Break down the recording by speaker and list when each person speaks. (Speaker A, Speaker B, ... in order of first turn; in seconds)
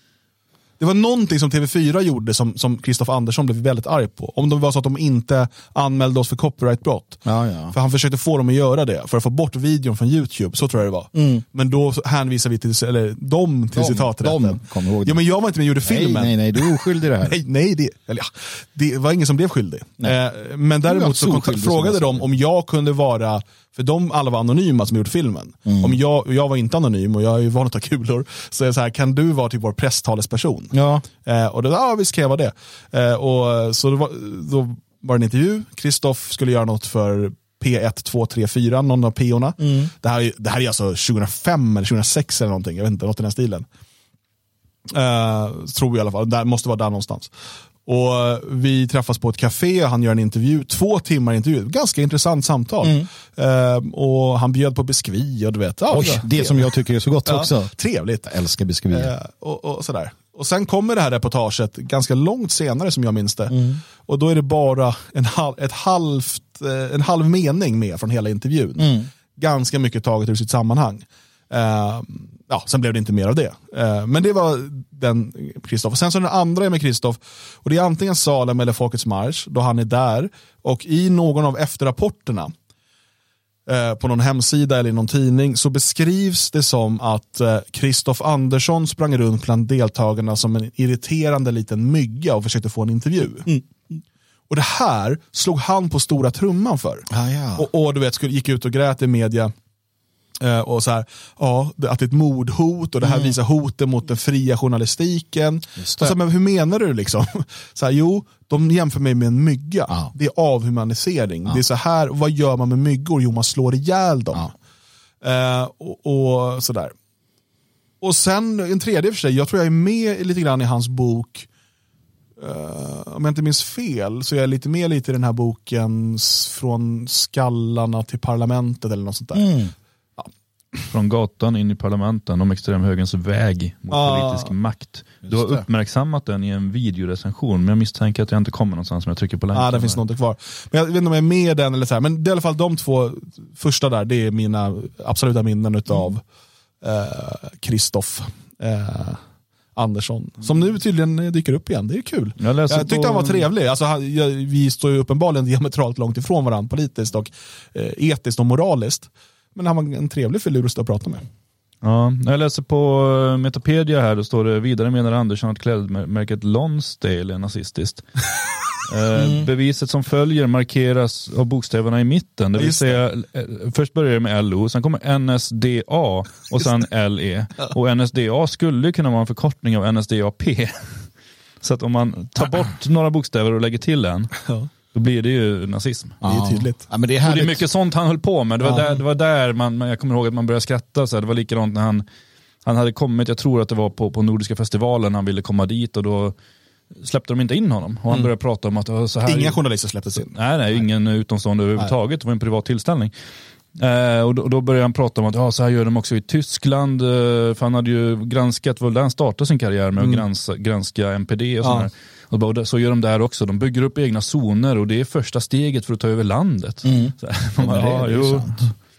Speaker A: 0.8-7.2, 7.7-43.7, 44.9-47.3, 47.9-56.7, 57.3-58.3, 58.9-82.5, 83.7-93.6, 94.5-99.5, 100.4-114.5, 115.2-116.9, 118.0-121.5, 122.4-129.6, 133.9-134.5, 139.5-146.2, 146.8-149.2, 149.8-161.2, 172.6-173.0, 186.2-186.8, 199.3-200.4, 210.0-210.2, 211.6-211.9
Speaker B: 7.3-7.8, 11.1-11.4, 13.7-15.2, 15.8-17.4, 20.9-22.3, 25.7-26.0, 30.7-31.1, 39.6-39.9, 52.8-53.1, 55.9-57.7, 58.3-59.1, 63.5-63.8, 68.8-69.1, 97.1-97.7, 103.0-103.3, 105.8-106.2, 129.3-129.7, 135.3-135.7, 169.1-169.5, 186.2-187.7, 216.8-218.7
Speaker C: 130.9-140.0, 152.4-153.5, 161.8-168.1, 168.8-181.0, 181.6-184.4, 184.9-186.2, 187.2-192.1, 192.7-196.3, 197.0-199.6, 200.3-203.1, 203.8-218.7